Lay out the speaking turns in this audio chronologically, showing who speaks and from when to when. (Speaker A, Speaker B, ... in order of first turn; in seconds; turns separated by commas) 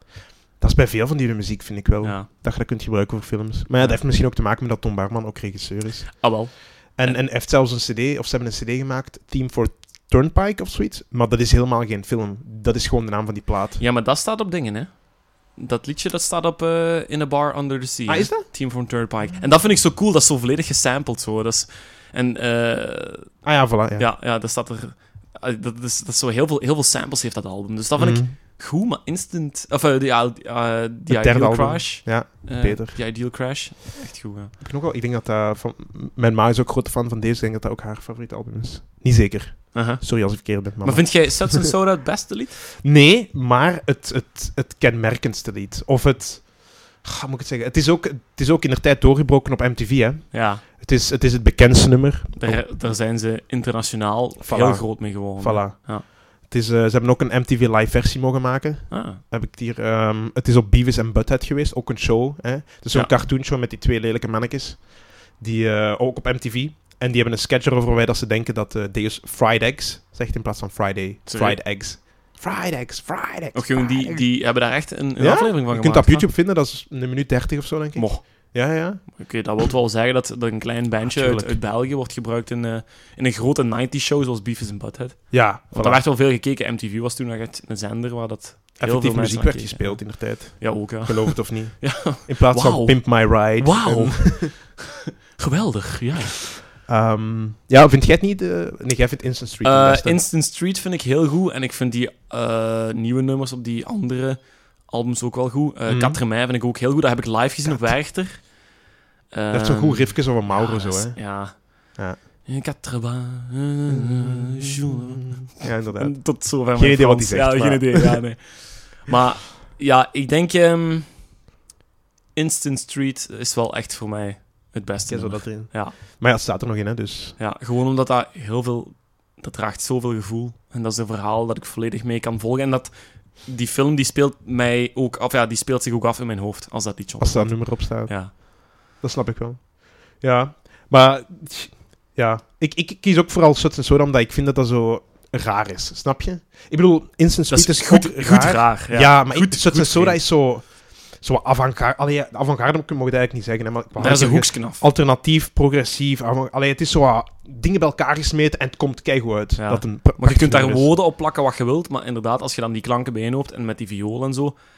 Speaker A: 0.6-13.8, Speaker B: 2.0-2.3, Speaker B: 3.8-4.0, Speaker B: 6.2-7.2, Speaker B: 13.8-23.4, Speaker A: 18.1-18.4, Speaker A: 23.4-24.1, Speaker B: 23.9-34.5, Speaker A: 28.0-28.3, Speaker A: 31.1-33.0, Speaker A: 34.6-41.7, Speaker B: 39.7-42.6, Speaker A: 42.8-52.6, Speaker B: 50.3-50.6, Speaker B: 52.4-56.1, Speaker A: 54.4-74.4, Speaker B: 58.9-59.2, Speaker B: 71.3-71.6, Speaker B: 73.5-76.3, Speaker A: 75.2-79.0, Speaker B: 78.0-96.4, Speaker A: 81.0-81.6, Speaker A: 85.3-86.0, Speaker A: 88.8-94.5, Speaker A: 96.9-100.2, Speaker B: 99.6-108.6, Speaker A: 105.9-106.2, Speaker A: 107.6-107.9, Speaker B: 109.3-121.1, Speaker A: 109.5-111.3, Speaker A: 114.0-118.2, Speaker B: 122.3-126.0, Speaker A: 125.1-127.4, Speaker B: 127.4-138.3, Speaker A: 137.2-160.9, Speaker B: 147.5-150.2, Speaker B: 154.0-154.8, Speaker B: 159.6-164.6